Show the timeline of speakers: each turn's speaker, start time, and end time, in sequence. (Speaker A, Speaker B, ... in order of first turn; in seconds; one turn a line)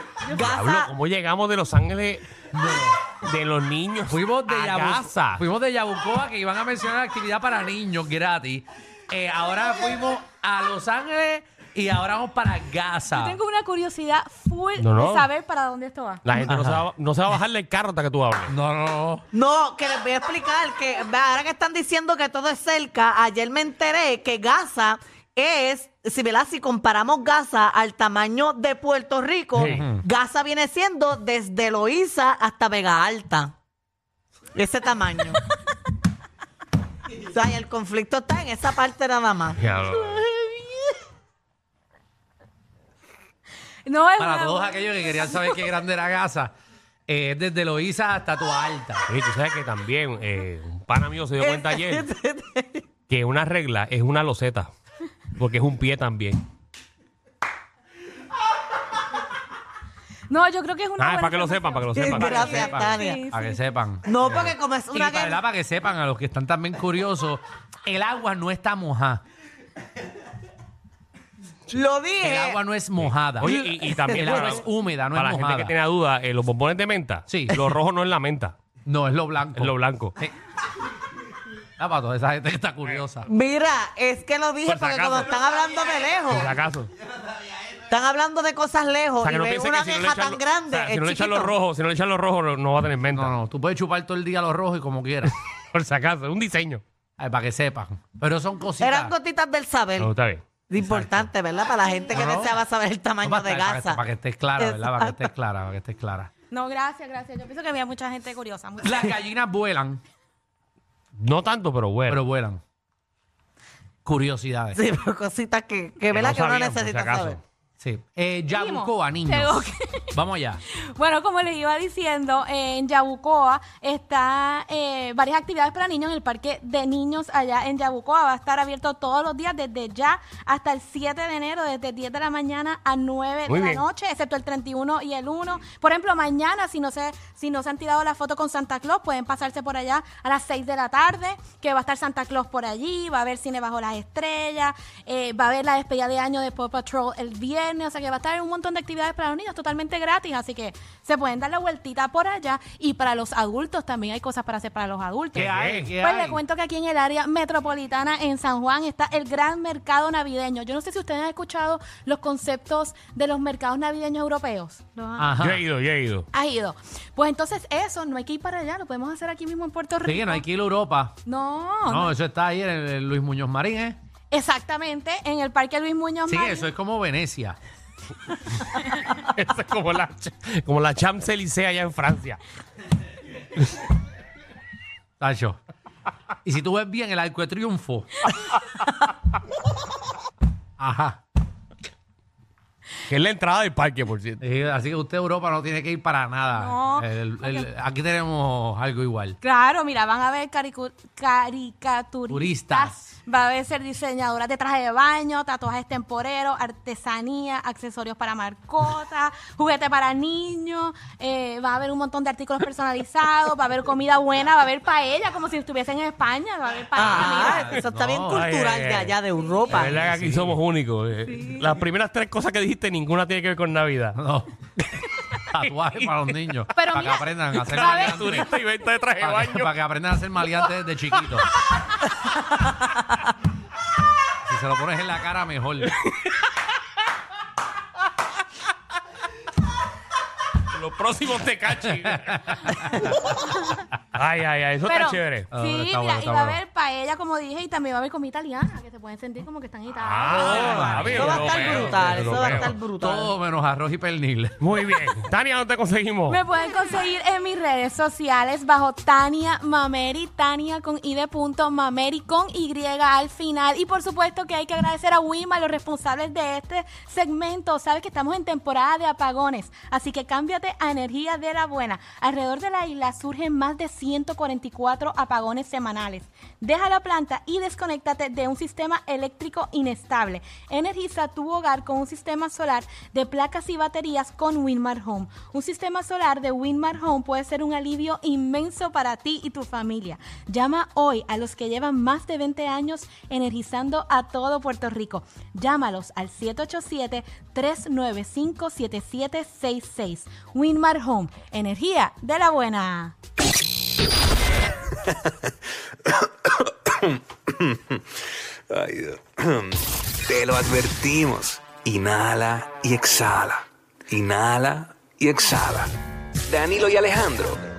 Speaker A: 0.2-0.9
Speaker B: 0.3-2.3
Speaker C: 2.5-3.1
Speaker B: 3.1-5.4
Speaker C: 4.1-13.4
Speaker D: 13.2-16.2
Speaker B: 14.8-15.3
Speaker B: 16.2-18.5
Speaker C: 16.4-16.9
Speaker C: 18.5-19.2
Speaker A: 19.3-33.5
Speaker B: 29.5-29.9
Speaker C: 29.7-30.0
Speaker A: 34.5-35.4
Speaker A: 37.3-39.6
Speaker B: 39.5-40.3
Speaker D: 43.9-45.6
Speaker C: 44.2-46.5
Speaker C: 47.1-49.1
Speaker B: 49.1-52.1
Speaker A: 51.4-52.8
Speaker B: 53.1-54.7
Speaker B: 55.3-56.4
Speaker D: 60.3-63.6
Speaker B: 61.0-62.3
Speaker A: 62.0-63.2
Speaker C: 62.0-69.2
Speaker A: 64.0-65.4
Speaker A: 71.7-72.6
Speaker C: 72.2-75.7
Speaker B: 73.0-78.5
Speaker A: 74.0-74.4
Speaker C: 77.3-77.7
Speaker C: 78.8-80.3
Speaker B: 79.5-80.1
Speaker C: 81.8-83.3
Speaker A: 83.3-86.5
Speaker B: 84.6-85.4
Speaker B: 86.3-86.9
Speaker A: 87.9-91.5
Speaker B: 89.2-93.3
Speaker C: 93.1-95.3
Speaker B: 95.7-96.8
Speaker C: 97.2-99.1
Speaker A: 98.8-100.1
Speaker B: 100.0-100.4
Speaker A: 100.7-104.0
Speaker C: 100.8-101.2
Speaker C: 102.1-102.6
Speaker C: 103.2-106.3
Speaker A: 104.5-105.2
Speaker D: 106.5-109.2
Speaker C: 108.8-110.0
Speaker B: 111.2-112.2
Speaker C: 112.1-112.6
Speaker C: 114.0-114.8
Speaker A: 114.7-117.4
Speaker B: 116.1-117.4
Speaker C: 117.8-120.6
Speaker D: 118.5-120.1
Speaker D: 120.7-165.3
Speaker B: 133.5-133.8
Speaker C: 155.3-156.4
Speaker B: 155.3-155.9
Speaker C: 165.2-165.6
Speaker B: 165.4-166.2
Speaker D: 166.3-170.4
Speaker C: 170.0-171.2
Speaker D: 171.2-172.1
Speaker C: 171.8-174.0
Speaker D: 174.3-176.7
Speaker C: 176.3-177.6
Speaker B: 178.8-182.4
Speaker C: 185.2-185.6
Speaker C: 186.4-188.3
Speaker B: 188.3-189.0
Speaker C: 190.8-191.2
Speaker B: 193.1-194.4
Speaker C: 194.4-199.4
Speaker D: 196.5-197.7
Speaker D: 199.4-217.8
Speaker C: 202.3-203.1
Speaker A: 216.9-220.5
Speaker C: 217.0-218.4
Speaker B: 218.4-219.2
Speaker D: 219.7-219.9
Speaker B: 219.7-224.2
Speaker D: 221.2-221.7
Speaker C: 224.2-224.7
Speaker C: 225.5-228.5
Speaker B: 225.6-226.3
Speaker D: 226.7-228.5
Speaker B: 227.5-229.7
Speaker C: 229.2-231.5
Speaker C: 234.4-235.9
Speaker B: 235.8-236.4
Speaker B: 240.7-242.9
Speaker C: 241.9-243.3
Speaker B: 244.1-245.5
Speaker D: 244.8-251.2
Speaker C: 245.5-246.6
Speaker B: 250.0-252.8
Speaker C: 250.3-254.6
Speaker A: 251.1-253.3
Speaker B: 254.6-256.4
Speaker D: 256.3-303.1
Speaker E: 306.6-308.0
Speaker E: 308.7-315.9
Speaker E: 316.5-317.6